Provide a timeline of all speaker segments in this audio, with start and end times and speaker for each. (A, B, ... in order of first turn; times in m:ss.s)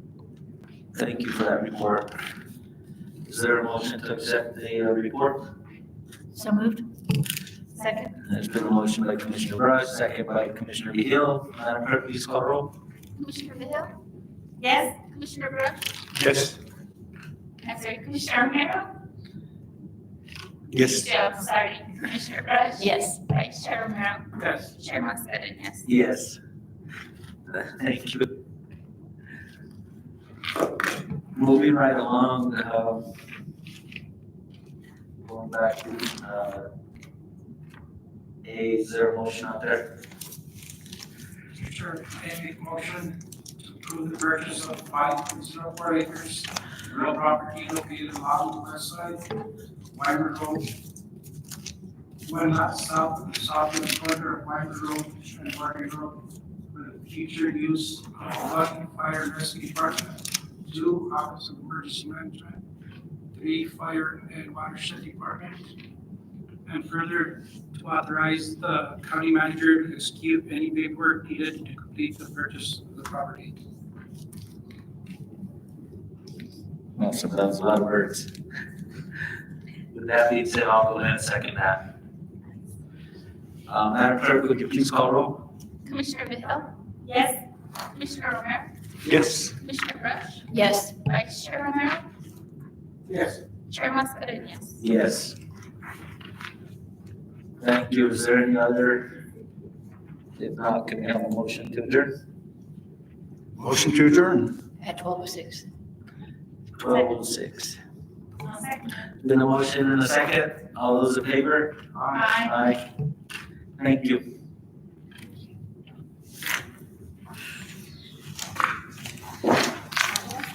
0:00.9-0:02.1 A
0:03.2-0:05.4 A
0:06.3-0:06.8 B
0:07.8-0:08.1 C
0:08.2-0:12.7 A
0:13.2-0:14.0 C
0:14.6-0:15.9 C
0:16.1-0:16.6 D
0:17.6-0:18.9 C
0:20.7-0:21.1 D
0:20.8-0:25.9 C
0:22.8-0:23.2 B
0:25.8-0:26.4 A
0:27.5-0:28.3 A
0:31.3-0:33.1 A
0:35.2-0:36.7 A
0:38.4-0:39.9 A
0:41.6-0:49.3 E
0:49.9-0:50.7 E
0:52.2-1:02.6 E
1:03.3-1:05.7 E
1:06.6-1:13.6 E
1:17.0-1:18.3 A
1:19.9-1:21.8 A
1:23.7-1:25.5 A
1:25.8-1:27.4 C
1:27.9-1:28.7 C
1:29.0-1:29.5 D
1:29.6-1:32.0 C
1:30.5-1:30.9 B
1:33.7-1:34.8 C
1:34.8-1:35.4 A
1:37.6-1:39.1 A
1:40.4-1:42.1 A
1:43.6-1:44.6 D
1:44.8-1:45.6 B
1:46.8-1:47.8 A
1:48.4-1:49.0 C
1:49.2-1:51.8 A
1:51.9-1:52.3 E
1:52.1-1:52.5 C
1:52.4-1:52.8 A
1:53.8-1:54.2 A